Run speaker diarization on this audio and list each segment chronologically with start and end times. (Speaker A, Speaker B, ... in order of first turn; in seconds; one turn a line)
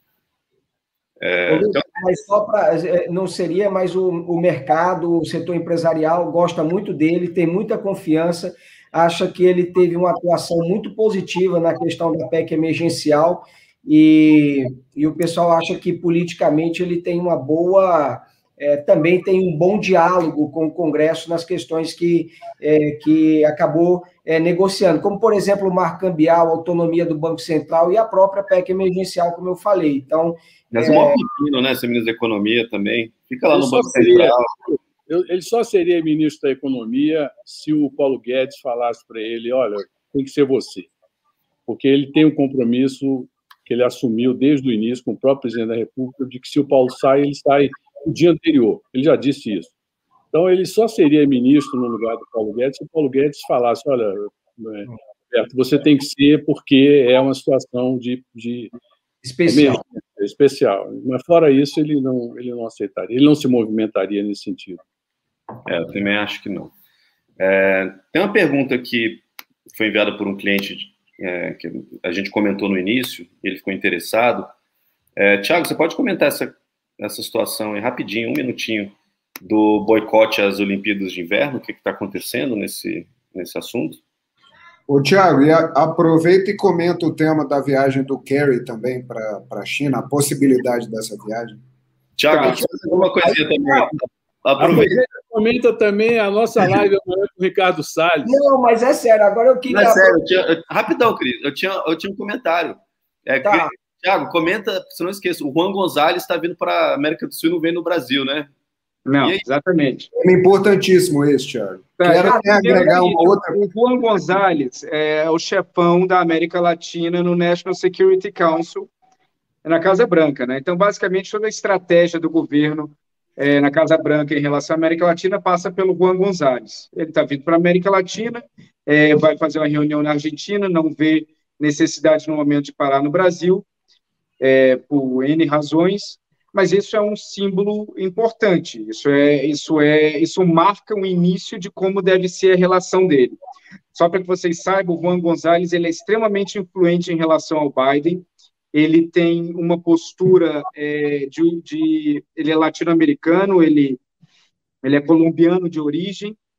Speaker A: 1.2-1.8
Speaker B: 1.5-31.2
Speaker A: 30.7-34.6
Speaker C: 33.5-40.9
Speaker C: 41.7-49.7
Speaker C: 50.3-58.7
Speaker B: 59.2-59.8
Speaker C: 59.5-64.8
Speaker A: 65.7-66.7
Speaker A: 67.4-74.5
Speaker A: 75.2-84.0
Speaker D: 84.9-91.6
Speaker A: 92.2-95.0
Speaker E: 92.3-92.6
Speaker B: 93.7-93.9
Speaker C: 94.6-98.4
Speaker B: 98.2-100.2
Speaker A: 99.7-108.5
Speaker B: 103.4-103.7
Speaker E: 109.1-110.1
Speaker D: 110.2-113.6
Speaker E: 112.0-118.9
Speaker E: 119.6-133.6
Speaker E: 134.4-143.4
Speaker E: 143.9-154.0
Speaker E: 154.8-156.4